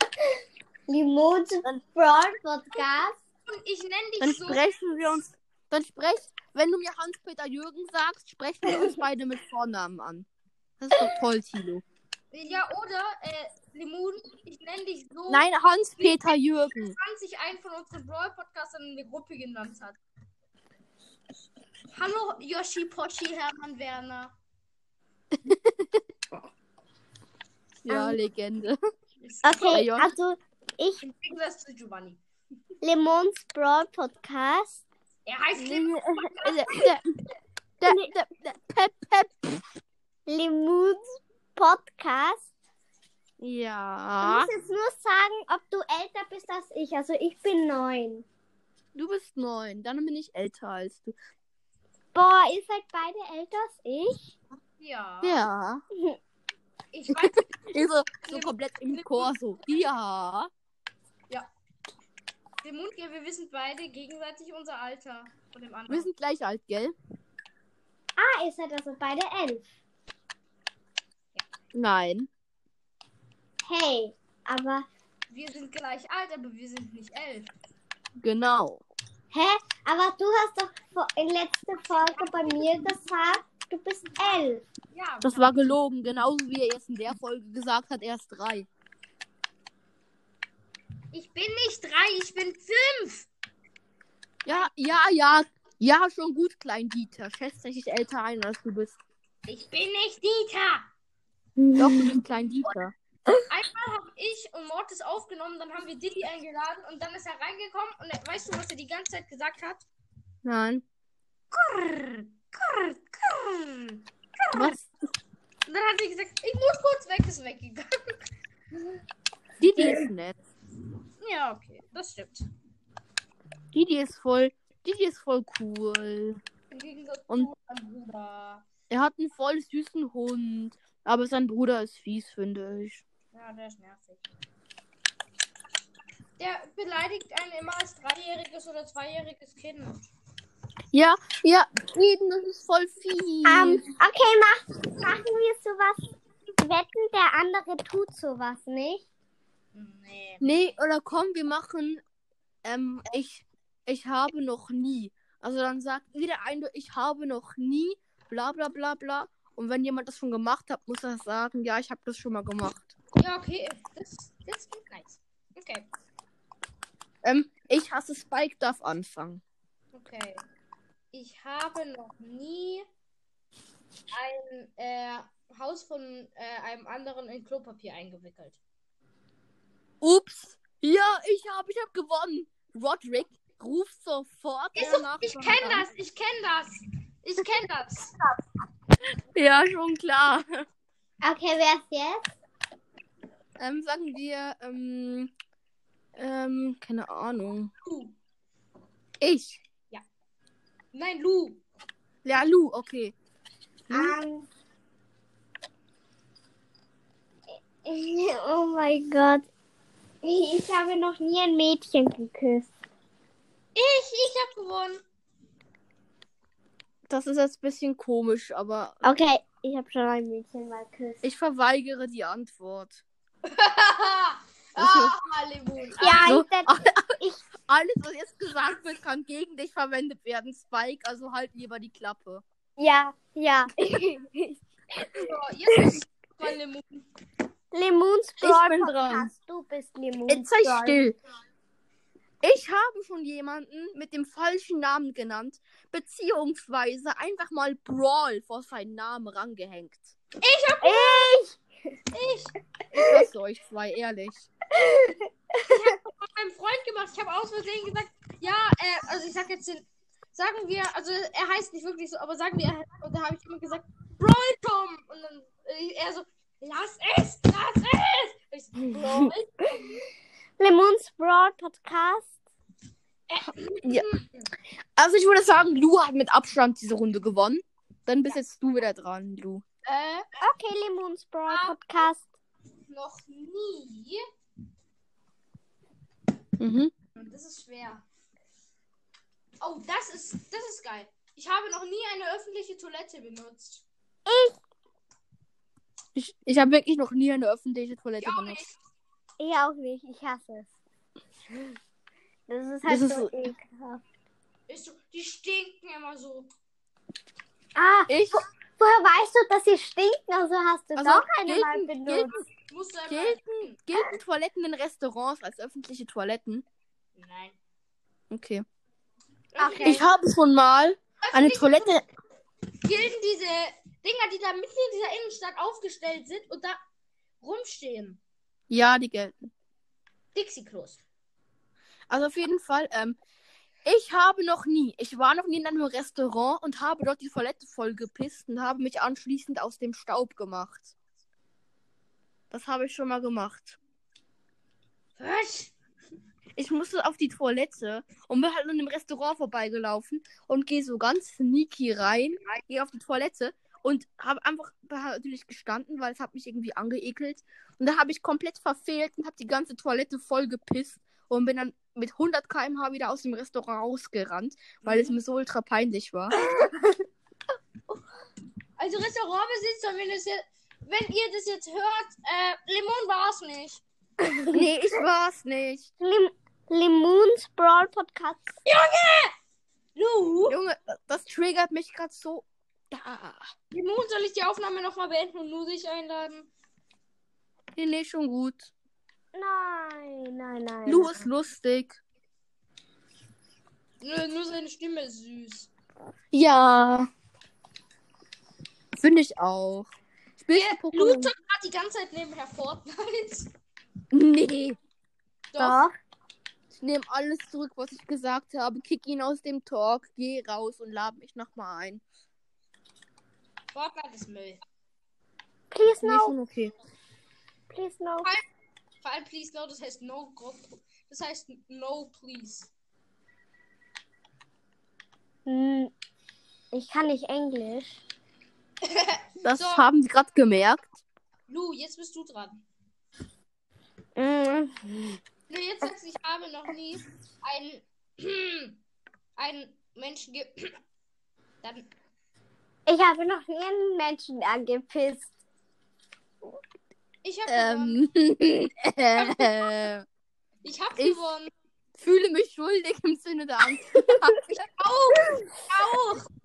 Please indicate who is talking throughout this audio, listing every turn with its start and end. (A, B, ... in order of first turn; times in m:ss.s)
0:00.9-0:03.2 A
0:03.5-0:04.6 B
0:04.2-0:10.3 C
0:10.8-0:11.8 C
0:12.3-0:20.0 B
0:15.3-0:17.0 C
0:21.9-0:24.3 B
0:25.5-0:26.0 C
0:27.8-0:28.8 C
0:27.9-0:28.2 A
0:29.2-0:29.8 B
0:29.4-0:31.0 A
0:29.6-0:30.1 C
0:31.0-0:32.2 B
0:32.8-0:34.8 A
0:35.2-0:36.6 B
0:35.6-0:37.1 C
0:37.8-0:39.5 C
0:37.8-0:38.1 A
0:40.3-0:42.4 A
0:43.4-0:44.5 C
0:44.2-0:48.2 A
0:49.0-0:51.2 C
0:52.1-0:54.3 A
0:54.8-0:55.4 B
0:55.2-0:55.8 C
0:56.9-0:57.4 B
0:57.1-1:00.5 C
0:58.1-0:59.3 B
1:02.6-1:06.1 B
1:05.9-1:07.0 C
1:08.2-1:09.6 A
1:11.7-1:12.3 C
1:13.7-1:14.9 A
1:15.3-1:17.5 B
1:18.2-1:18.8 C
1:19.3-1:24.6 A
1:21.9-1:22.8 B
1:24.9-1:25.5 B
1:25.2-1:28.7 C
1:31.1-1:33.3 B
1:34.4-1:39.0 C
1:39.5-1:40.9 B
1:41.6-1:42.2 A
1:41.8-1:42.9 C
1:43.5-1:49.8 B
1:50.4-1:50.8 C
1:51.5-1:54.8 B
1:54.5-1:55.1 C
1:55.7-1:58.2 B
1:59.6-2:00.4 C
2:01.2-2:02.5 B
2:03.7-2:06.4 C
2:06.7-2:08.6 B
2:08.9-2:13.0 C
2:13.3-2:14.2 B
2:16.4-2:20.0 B
2:20.9-2:23.9 C
2:23.4-2:26.0 A
2:26.6-2:29.0 A
2:29.7-2:30.5 B
2:30.4-2:32.0 C
2:32.6-2:42.9 C
2:43.2-2:45.9 B
2:47.2-2:49.4 C
2:49.9-2:50.4 B
2:51.1-2:52.8 B
2:54.1-2:58.6 B
3:00.0-3:05.9 C
3:04.8-3:08.2 B
3:09.4-3:10.6 C
3:11.2-3:12.3 A
3:13.6-3:15.3 C
3:16.2-3:17.7 C
3:17.8-3:18.2 B
3:19.2-3:19.6 C
3:20.9-3:21.6 B
3:22.2-3:23.1 C
3:23.9-3:24.2 C
3:23.9-3:24.5 A
3:27.9-3:29.5 A
3:30.2-3:32.7 A
3:33.8-3:35.0 B
3:37.1-3:39.0 C
3:39.0-3:41.2 A
3:41.2-3:43.0 C
3:43.5-3:46.4 B
3:44.8-3:45.1 C
3:46.0-3:47.4 A
3:46.2-3:47.1 C
3:47.7-3:52.4 C
3:52.8-3:54.6 A
3:55.2-3:57.0 B
3:57.7-4:01.0 A
3:58.4-3:59.3 C
4:00.3-4:01.2 C
4:02.4-4:10.1 C
4:10.4-4:11.4 B
4:10.8-4:11.6 A
4:12.1-4:12.6 B
4:12.9-4:14.5 C
4:14.8-4:15.7 A
4:15.7-4:30.0 B
4:30.6-4:32.3 A
4:33.3-4:34.4 B
4:35.0-4:39.6 C
4:39.9-4:40.2 B
4:40.4-4:42.2 A
4:41.5-4:42.1 B
4:42.9-4:44.2 B
4:46.6-4:46.9 C
4:47.2-4:48.1 B
4:49.6-4:53.8 B
4:54.3-4:54.5 A
4:56.2-4:58.6 C
4:58.2-4:58.7 B
4:59.4-5:00.7 A
5:02.5-5:04.0 A
5:02.9-5:03.3 C
5:04.7-5:06.5 B
5:07.8-5:12.3 A
5:08.1-5:08.4 C
5:11.0-5:12.4 C
5:12.7-5:13.8 B
5:13.1-5:16.6 C
5:17.2-5:17.6 B
5:18.3-5:18.6 C
5:19.5-5:20.0 B
5:19.6-5:20.1 A
5:19.8-5:22.1 C
5:21.2-5:21.9 B
5:22.8-5:26.8 B
5:27.4-5:28.2 B
5:28.7-5:29.5 C
5:30.4-5:31.0 B
5:32.1-5:33.2 C
5:33.8-5:40.9 C
5:42.5-5:43.8 C
5:45.2-5:45.7 B
5:46.6-6:06.4 C
6:04.8-6:05.2 B
6:08.8-6:13.8 B
6:14.2-6:14.9 A
6:14.5-6:15.9 C
6:16.0-6:18.6 A
6:18.6-6:19.3 B
6:20.0-6:20.6 B
6:20.5-6:23.4 C
6:23.7-6:26.5 B
6:27.8-6:28.7 C
6:29.4-6:31.2 A
6:30.9-6:32.0 C
6:34.0-6:35.7 B
6:36.3-6:37.1 C
6:39.0-6:41.3 C
6:40.5-6:43.5 B
6:44.1-6:44.8 C
6:45.5-6:45.8 B
6:45.6-6:45.9 A
6:46.8-6:52.0 C
6:53.7-6:54.6 B
6:55.7-6:56.4 A
6:56.0-6:56.7 C
6:57.7-6:58.3 A
6:59.0-7:02.7 B
7:05.5-7:05.9 A
7:06.7-7:08.0 A
7:08.8-7:09.9 B
7:09.4-7:11.0 C
7:11.5-7:12.6 B
7:14.2-7:15.2 A
7:15.5-7:18.8 B
7:19.4-7:20.7 B
7:21.6-7:21.9 B
7:22.9-7:25.3 A
7:27.2-7:28.0 B
7:27.5-7:30.0 C
7:29.2-7:29.5 B
7:30.6-7:31.5 B
7:31.0-7:31.2 C
7:32.0-7:34.6 C
7:34.8-7:36.3 B